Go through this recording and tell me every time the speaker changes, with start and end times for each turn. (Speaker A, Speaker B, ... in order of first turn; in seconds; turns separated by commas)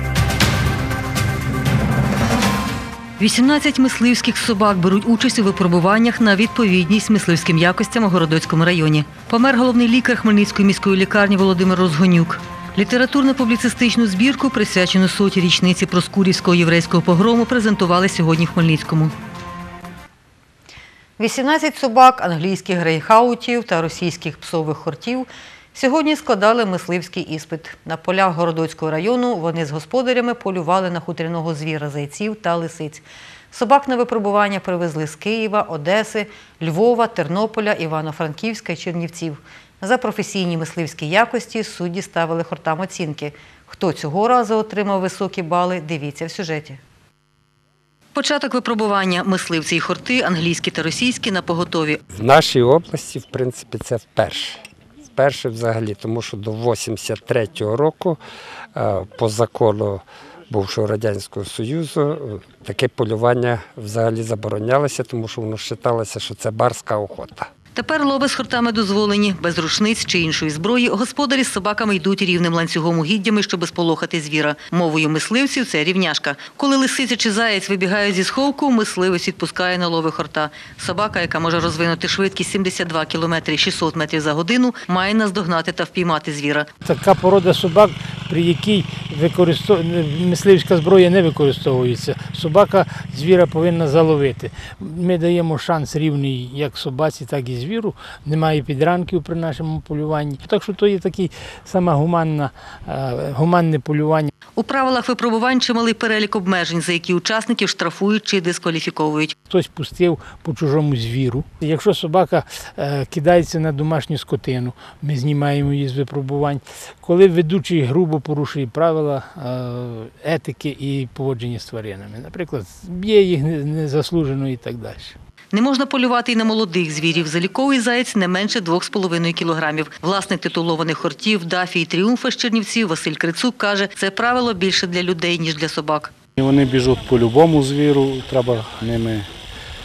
Speaker A: 3.2-19.1, Speaker A: 21.2-46.8, Speaker A: 48.1-52.0, Speaker B: 52.1-54.6, Speaker B: 55.1-58.2, Speaker B: 58.8-67.5, Speaker A: 67.8-86.7, Speaker C: 86.8-104.3, Speaker A: 104.6-109.3, Speaker C: 109.5-125.1, Speaker A: 125.5-136.1, Speaker D: 136.4-139.3